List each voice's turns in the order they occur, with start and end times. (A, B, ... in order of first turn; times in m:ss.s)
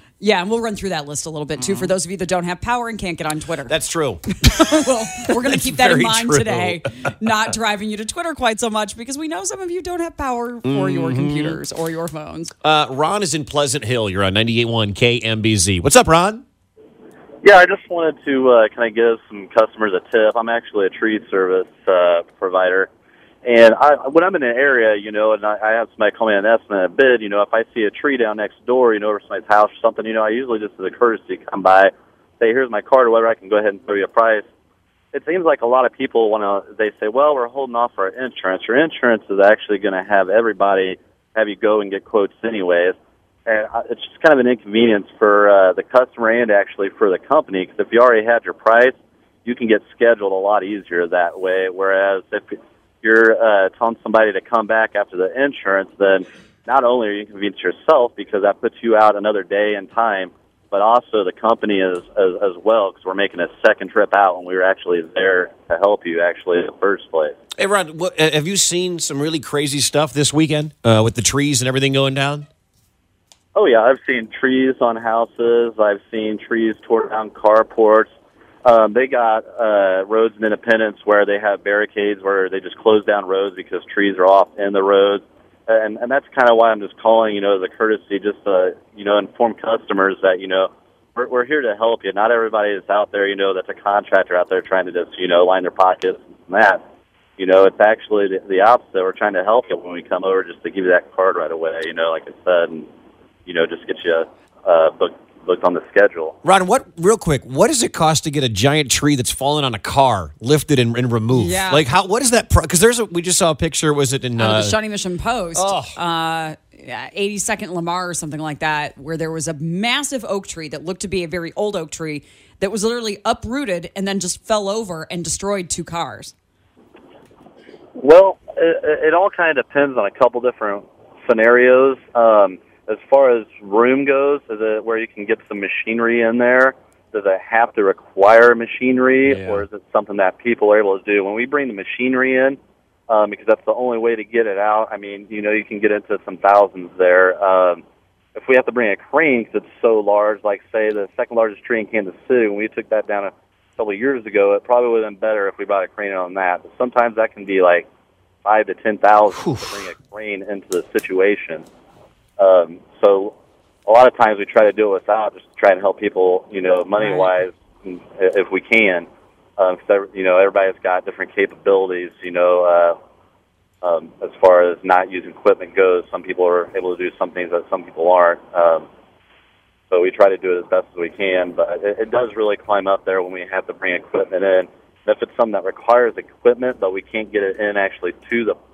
0:00.2-0:03.7 A
0:01.6-0:01.9 B
0:03.7-0:07.3 B
0:04.4-0:12.5 A
0:10.6-0:11.6 B
0:12.6-0:16.4 B
0:17.4-0:22.9 C
0:23.4-0:34.5 C
0:35.1-0:48.9 C
0:49.4-1:07.3 C
1:07.6-1:12.5 B
1:13.6-1:18.1 C
1:18.6-1:36.8 C
1:37.4-1:42.9 C
1:43.5-1:46.4 C
1:46.4-1:54.8 B
1:51.3-1:51.8 A
1:54.4-2:06.3 A
1:55.6-1:56.0 B
2:08.0-2:22.6 C
2:19.2-2:19.6 B
2:23.1-2:27.8 C
2:28.4-2:37.9 C
2:38.4-2:41.6 C
2:39.3-2:39.8 B
2:42.4-2:43.3 C
2:43.9-2:49.1 C
2:47.0-2:47.3 A
2:49.6-2:53.0 C
2:53.8-2:58.9 C
2:59.9-3:08.6 C